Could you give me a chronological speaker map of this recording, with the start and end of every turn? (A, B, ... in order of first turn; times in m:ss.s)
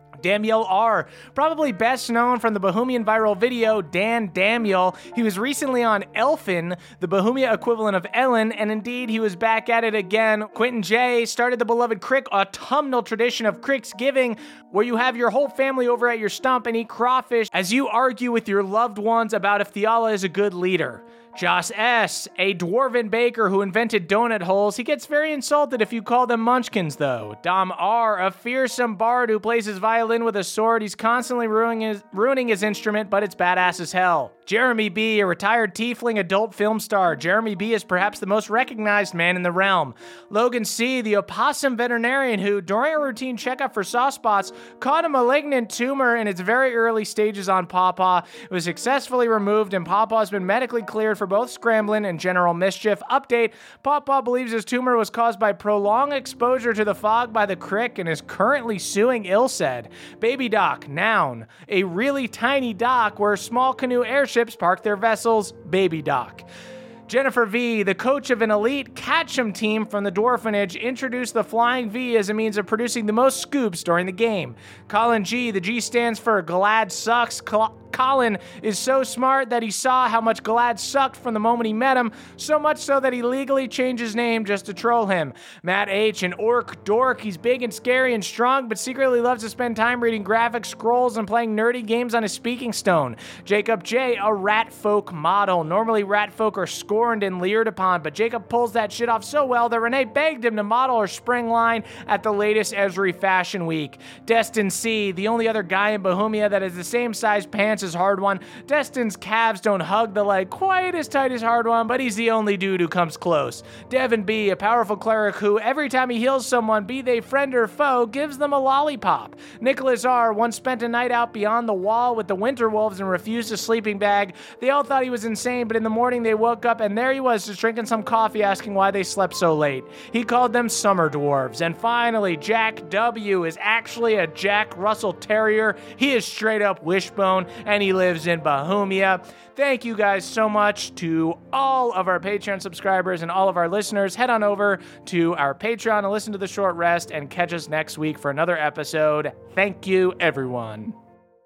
0:00.2-1:06.4 A
1:07.1-2:30.9 A